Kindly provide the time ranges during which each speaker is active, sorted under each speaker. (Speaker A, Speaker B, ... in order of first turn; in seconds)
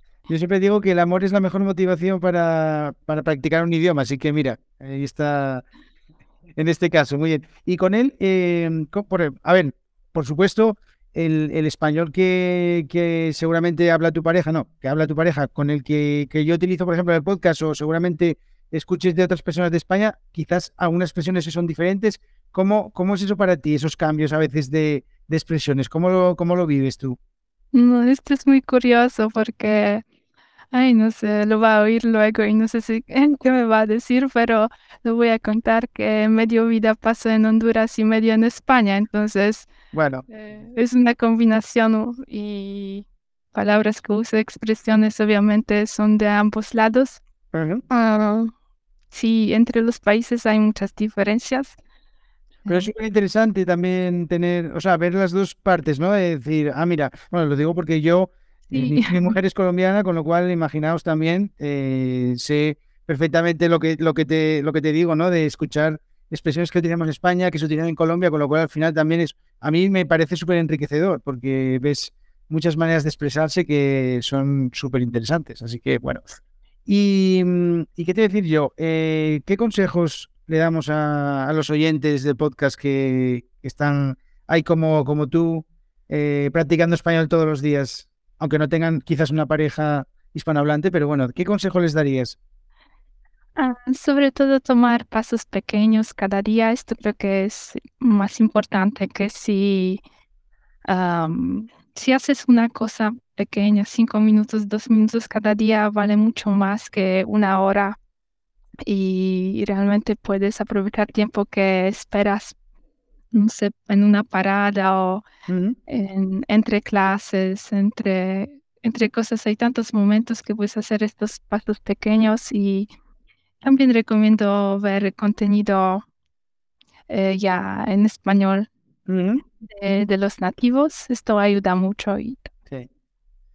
Speaker A: 0.3-5.6, 6.6-27.2, 39.9-40.3, 47.5-47.8, 52.6-76.2, 76.8-92.4, 115.5-115.8, 129.1-129.4
Speaker B: 27.7-30.0, 30.7-39.7, 40.3-47.2, 47.9-48.5, 49.1-51.8, 52.6-52.9, 58.7-59.3, 93.6-100.0, 100.9-108.0, 108.8-112.5, 113.3-115.2, 115.9-122.9, 123.6-126.0, 127.1-128.7, 129.7-132.5